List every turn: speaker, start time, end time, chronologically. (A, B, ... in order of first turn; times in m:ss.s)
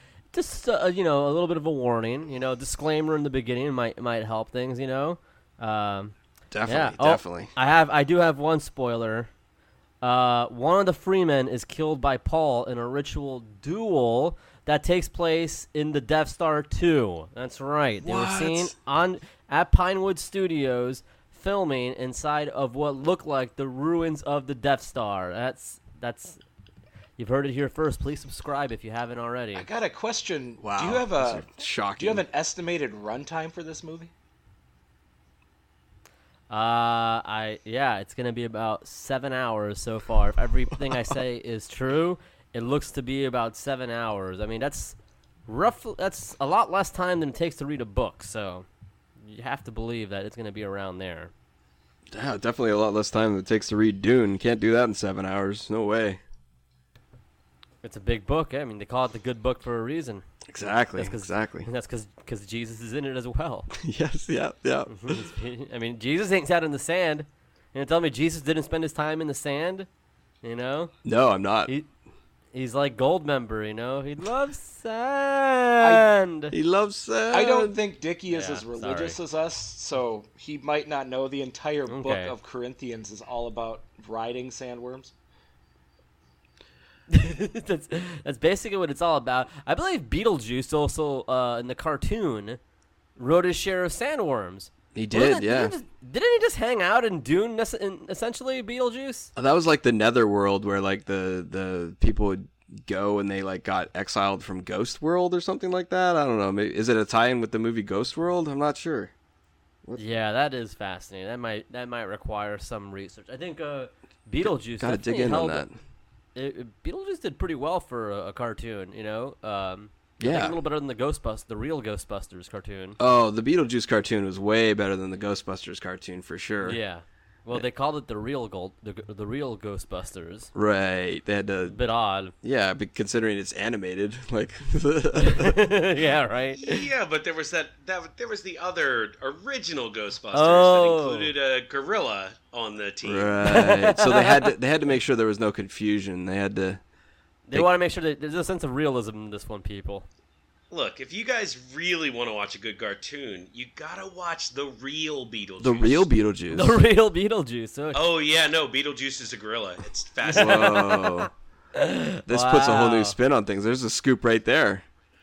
0:00.3-0:06.1 A
0:06.5-0:07.5 B
0:06.6-0:09.3 A
0:10.0-0:26.4 A
0:18.0-0:18.7 B
0:27.2-0:29.7 A
0:29.5-0:34.1 C
0:30.6-0:32.2 B
0:36.5-0:45.0 A
0:45.5-0:48.6 A
0:49.2-0:51.3 A
0:52.1-0:56.2 B
0:57.8-1:00.2 A
1:00.4-1:01.7 B
1:01.0-1:03.7 A
1:03.7-1:05.3 B
1:04.9-1:09.9 A
1:10.4-1:10.9 A
1:11.0-1:11.7 B
1:12.5-1:16.5 A
1:15.8-1:16.1 C
1:16.5-1:17.8 B
1:17.3-1:25.1 C
1:18.3-1:19.2 A
1:21.9-1:22.3 A
1:27.1-1:32.6 A
1:33.2-1:39.3 A
1:34.9-1:35.7 B
1:39.4-1:49.1 B
1:50.0-1:55.6 A
1:54.4-1:55.8 B
1:56.3-2:03.0 A
2:00.2-2:00.6 B
2:03.0-2:06.8 B
2:06.6-2:10.5 A
2:10.5-2:11.8 B
2:11.6-2:12.3 A
2:12.4-2:15.7 B
2:15.2-2:16.9 A
2:16.6-2:23.4 D
2:20.3-2:21.3 A
2:23.0-2:26.8 B
2:23.4-2:24.5 A
2:27.5-2:30.1 A
2:30.7-2:36.1 D
2:35.6-2:36.8 B
2:36.5-2:38.0 A
2:37.9-2:40.8 D
2:40.2-2:43.2 A
2:40.3-2:41.3 B
2:42.3-2:44.8 B